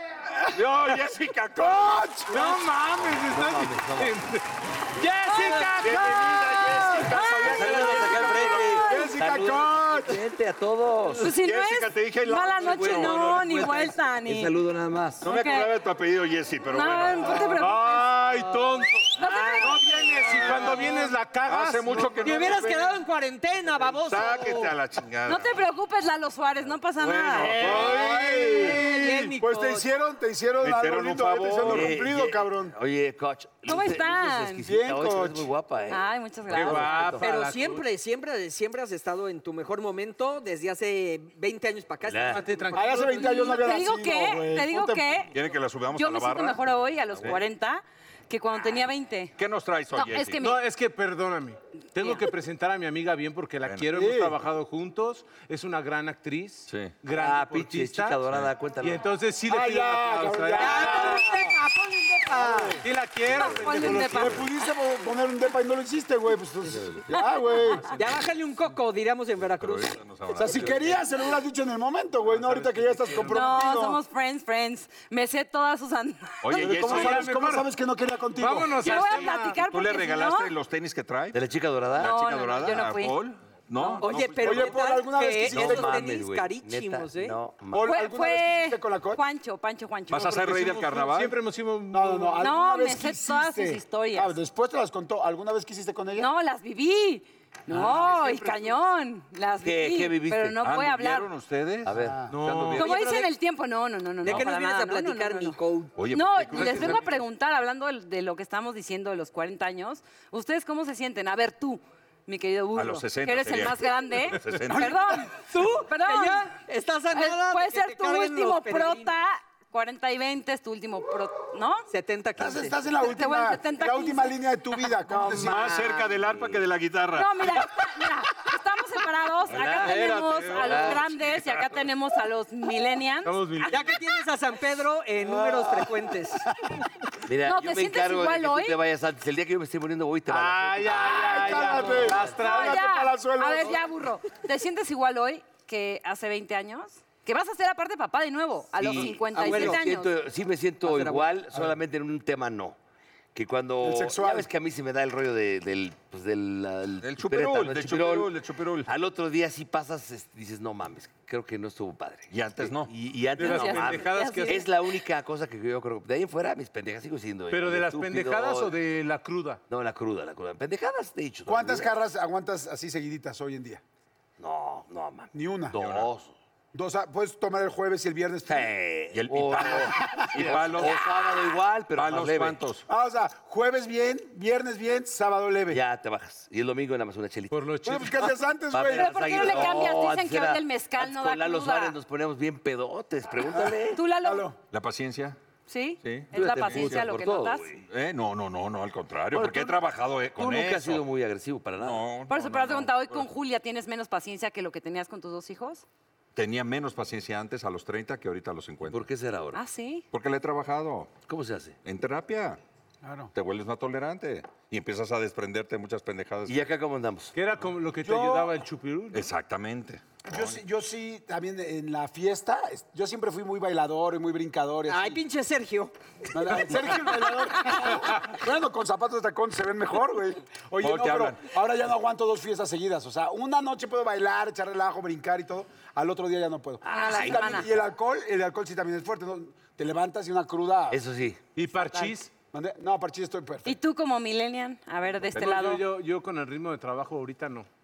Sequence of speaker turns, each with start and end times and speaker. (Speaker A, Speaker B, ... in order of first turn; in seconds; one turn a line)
Speaker A: 0.4-2.6
Speaker B: 2.3-7.0
Speaker C: 3.1-4.2
Speaker D: 5.2-5.8
Speaker A: 5.8-9.1
Speaker E: 6.6-10.2
Speaker D: 7.0-9.1
Speaker C: 7.4-11.3
Speaker A: 11.2-13.9
Speaker D: 11.2-14.5
Speaker C: 12.7-13.3
Speaker C: 14.2-15.2
Speaker A: 15.2-17.7
Speaker D: 15.2-15.7
Speaker D: 16.7-18.1
Speaker B: 17.5-22.6
Speaker D: 19.1-19.8
Speaker A: 19.2-22.9
Speaker F: 22.1-24.7
Speaker A: 23.8-25.5
Speaker D: 25.3-27.6
Speaker A: 27.0-28.4
Speaker B: 27.3-28.8
Speaker E: 27.5-32.8
Speaker F: 28.4-29.9
Speaker A: 30.6-32.0
Speaker C: 31.6-37.2
Speaker D: 33.6-34.6
Speaker E: 34.6-35.5
Speaker D: 35.9-36.9
Speaker B: 36.5-37.8
Speaker A: 36.6-37.2
Speaker F: 37.2-43.6
Speaker C: 42.0-42.5
Speaker B: 42.3-43.3
Speaker E: 42.8-45.2
Speaker D: 43.1-45.3
Speaker A: 45.3-46.6
Speaker D: 45.9-49.3
Speaker A: 47.1-47.4
Speaker A: 49.4-50.5
Speaker D: 49.9-50.5
Speaker B: 50.4-58.2
Speaker A: 53.6-53.9
Speaker E: 53.9-54.3
Speaker A: 56.7-57.0
Speaker C: 57.1-59.0
Speaker B: 58.8-61.3
Speaker E: 59.5-61.5
Speaker F: 60.6-62.8
Speaker E: 62.3-62.8
Speaker B: 62.8-64.5
Speaker D: 63.3-64.7
Speaker E: 64.1-67.9
Speaker F: 67.9-70.0
Speaker A: 69.5-71.0
Speaker E: 70.3-74.0
Speaker B: 72.2-73.8
Speaker D: 73.2-76.9
Speaker A: 76.4-77.6
Speaker E: 76.6-78.7
Speaker B: 76.6-77.6
Speaker B: 78.4-79.6
Speaker D: 78.8-80.5
Speaker A: 78.8-81.4
Speaker C: 81.3-82.1
Speaker A: 81.9-84.8
Speaker D: 82.0-83.2
Speaker D: 83.8-84.0
Speaker F: 84.0-87.4
Speaker E: 84.4-85.9
Speaker C: 85.5-87.9
Speaker E: 87.7-89.2
Speaker D: 87.9-90.8
Speaker A: 90.1-91.3
Speaker B: 90.5-92.5
Speaker E: 91.9-96.3
Speaker D: 92.4-94.4
Speaker D: 96.1-101.3
Speaker B: 97.7-98.4
Speaker C: 99.6-100.6
Speaker A: 100.6-101.9
Speaker C: 101.8-103.3
Speaker E: 101.9-102.3
Speaker B: 102.3-103.0
Speaker D: 102.7-105.6
Speaker F: 104.2-105.9
Speaker A: 106.0-107.1
Speaker D: 106.1-116.5
Speaker A: 112.7-115.1
Speaker F: 115.3-119.1
Speaker D: 117.1-121.8
Speaker F: 121.9-122.8
Speaker E: 122.4-125.9
Speaker D: 123.0-124.8
Speaker C: 125.1-126.6
Speaker A: 125.2-127.7
Speaker D: 127.1-133.9
Speaker A: 129.5-131.8
Speaker C: 129.6-131.1
Speaker B: 133.2-133.9
Speaker F: 133.7-136.5
Speaker C: 137.2-142.3
Speaker D: 137.4-138.8
Speaker B: 140.3-142.9
Speaker E: 140.9-143.8
Speaker D: 142.3-150.1
Speaker C: 148.8-152.8
Speaker F: 149.0-149.8
Speaker F: 150.8-151.3
Speaker C: 153.3-158.3
Speaker E: 153.8-154.5
Speaker A: 157.0-158.9
Speaker C: 158.8-168.8
Speaker A: 162.3-162.9
Speaker B: 163.4-164.6
Speaker D: 163.4-164.7
Speaker B: 167.5-169.6
Speaker C: 169.7-171.9
Speaker E: 171.5-173.8
Speaker C: 174.4-176.3
Speaker E: 175.3-175.8
Speaker A: 175.7-176.1
Speaker E: 176.7-178.7
Speaker C: 178.4-182.6
Speaker A: 179.1-181.3
Speaker E: 180.0-180.4
Speaker A: 181.9-182.8
Speaker E: 182.9-185.8
Speaker C: 185.7-187.6
Speaker B: 187.5-188.3
Speaker E: 187.8-189.8
Speaker C: 188.7-194.0
Speaker D: 188.9-192.0
Speaker E: 193.5-194.6
Speaker D: 193.9-194.5
Speaker A: 194.7-195.4
Speaker D: 195.7-197.7
Speaker A: 196.0-197.1
Speaker C: 196.3-197.8
Speaker A: 197.9-201.0
Speaker C: 199.3-199.8
Speaker C: 200.3-202.0
Speaker A: 201.8-203.2
Speaker D: 202.3-205.8
Speaker A: 206.3-209.1
Speaker C: 208.9-209.6
Speaker D: 209.5-210.0
Speaker A: 210.1-211.2
Speaker C: 211.3-211.8
Speaker A: 211.8-212.6
Speaker E: 213.0-213.3
Speaker A: 213.3-216.6
Speaker C: 216.4-217.3
Speaker B: 217.3-219.3
Speaker E: 218.0-218.5
Speaker A: 219.1-220.6
Speaker E: 220.2-225.2
Speaker F: 224.9-225.9
Speaker E: 226.3-241.0
Speaker F: 226.5-226.8
Speaker A: 230.8-231.4
Speaker D: 236.8-237.7
Speaker C: 236.8-237.7
Speaker C: 240.9-241.4
Speaker B: 241.5-242.3
Speaker E: 242.5-243.7
Speaker D: 243.6-245.8
Speaker B: 245.3-247.7